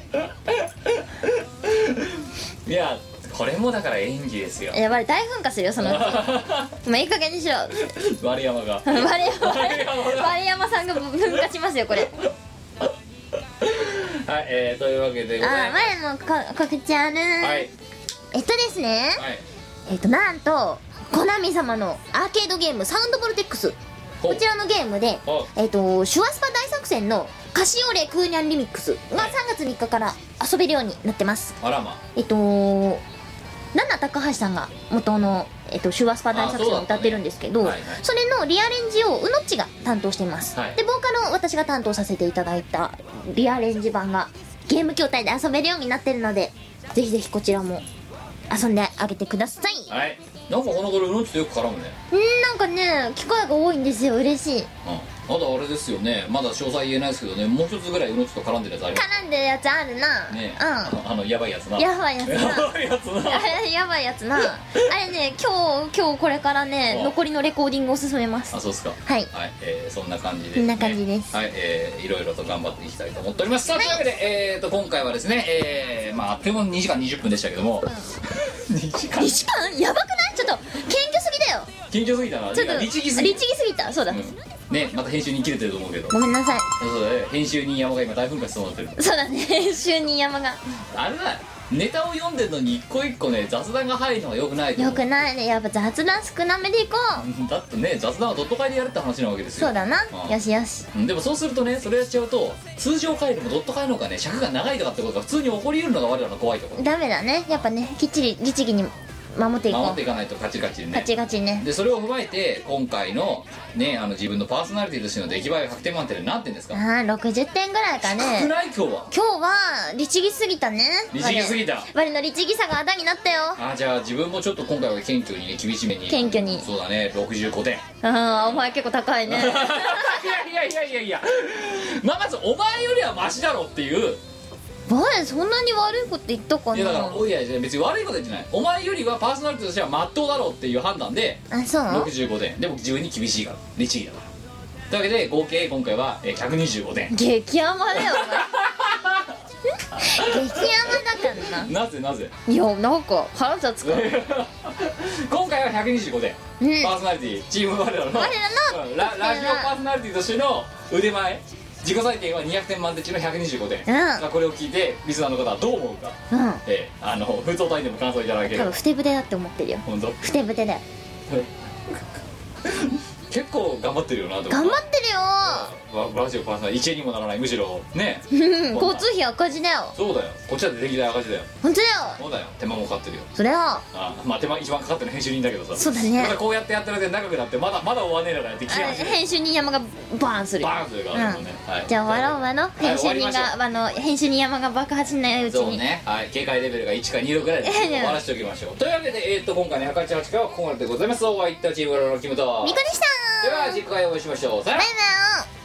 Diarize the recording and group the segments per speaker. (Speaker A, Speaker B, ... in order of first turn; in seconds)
Speaker A: 0.1-4.8, 5.8-6.8, 7.8-10.4, 13.6-15.9, 17.4-17.7, 19.2-19.4, 31.6-32.0, 36.3-38.0, 40.5-40.8, 49.9-52.0, 54.8-59.0, 60.3-63.5, 66.9-67.2, 68.5-79.4, 81.9-83.4, 84.1-86.1, 86.8-89.0, 90.9-95.0, 97.2-100.3, 100.9-106.9, 109.7-111.1, 111.6-116.8, 118.0-119.1, 121.1-121.9, 123.6-127.8, 129.3-134.2, 136.7-144.3, 144.9-147.1, 148.0-149.3, 150.0-152.3, 153.8-168.8, 169.8-170.4, 172.6-174.8, 175.4-179.0, 179.9-181.5, 182.2-183.3, 183.9-189.2, 190.6-193.5, 195.4-202.8, 203.4-204.9
Speaker B: 4.7-7.9, 8.8-12.2, 15.4-17.7, 18.3-19.2, 19.9-23.8, 24.3-31.6, 32.1-33.0, 33.7-47.8, 48.5-49.9, 52.1-54.7, 58.9-61.0, 61.8-62.7, 63.3-68.5, 70.5-71.4, 73.7-74.0, 79.2-81.7, 82.5-84.2, 86.1-86.7, 89.0-90.6, 94.8-97.2, 99.6-100.8, 106.8-110.0, 110.9-111.7, 116.7-118.5, 119.1-123.6, 126.1-126.7, 128.0-130.4, 134.9-137.2, 141.5-142.1, 147.1-148.5, 150.0-151.7, 152.5-154.1, 156.6-156.9, 158.1-159.7, 163.9-164.2, 166.3-166.6, 168.5-170.8, 174.5-175.7, 178.3-179.9, 181.6-182.2, 183.3-183.8, 185.8-186.4, 188.7-195.8, 197.6-198.2, 202.6-203.8, 204.8-205.5